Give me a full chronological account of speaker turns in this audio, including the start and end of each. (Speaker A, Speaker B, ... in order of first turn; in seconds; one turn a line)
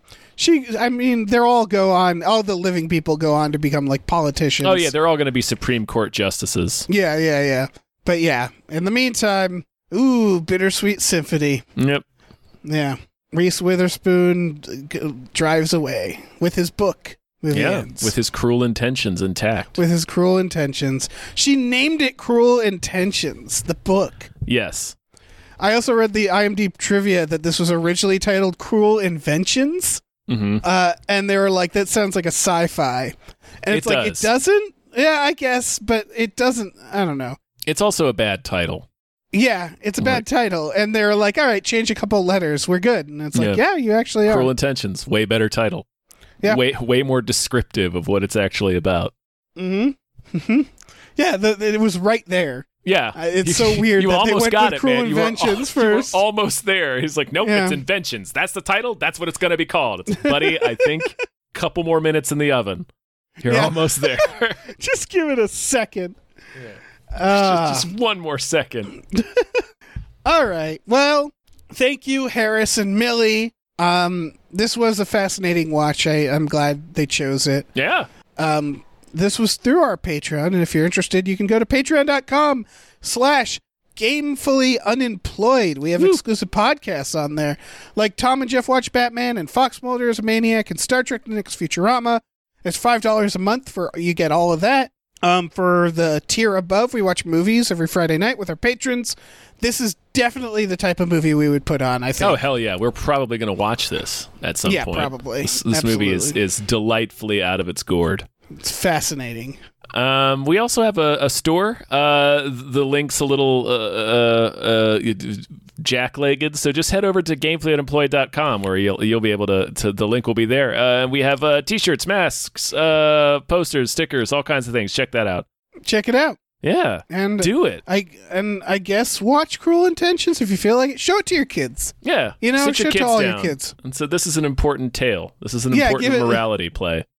Speaker A: 0.4-4.9
Speaker B: 4.6-6.9
Speaker A: 6.9-11.7
Speaker B: 11.8-12.1
Speaker A: 12.6-18.1
Speaker B: 17.5-19.8
Speaker A: 19.8-24.3
Speaker B: 24.4-24.9
Speaker A: 25.6-30.0
Speaker B: 30.3-30.6
Speaker A: 30.6-37.4
Speaker B: 33.7-34.3
Speaker B: 37.7-38.9
Speaker A: 39.3-44.5
Speaker B: 40.0-40.2
Speaker B: 43.3-43.6
Speaker B: 44.2-45.9
Speaker B: 46.4-49.1
Speaker A: 49.6-56.2
Speaker B: 52.8-62.9
Speaker A: 57.5-57.8
Speaker A: 60.2-60.8
Speaker B: 63.4-64.6
Speaker A: 63.4-66.2
Speaker A: 67.1-67.9
Speaker B: 67.3-69.0
Speaker A: 69.1-69.6
Speaker A: 70.2-77.7
Speaker B: 77.8-78.1
Speaker A: 78.4-102.4
Speaker B: 102.2-108.3
Speaker A: 104.7-106.4
Speaker A: 108.6-109.6
Speaker B: 109.9-125.5
Speaker A: 125.8-126.4
Speaker B: 126.6-127.8
Speaker A: 127.1-133.7
Speaker B: 132.0-137.1
Speaker A: 135.7-136.4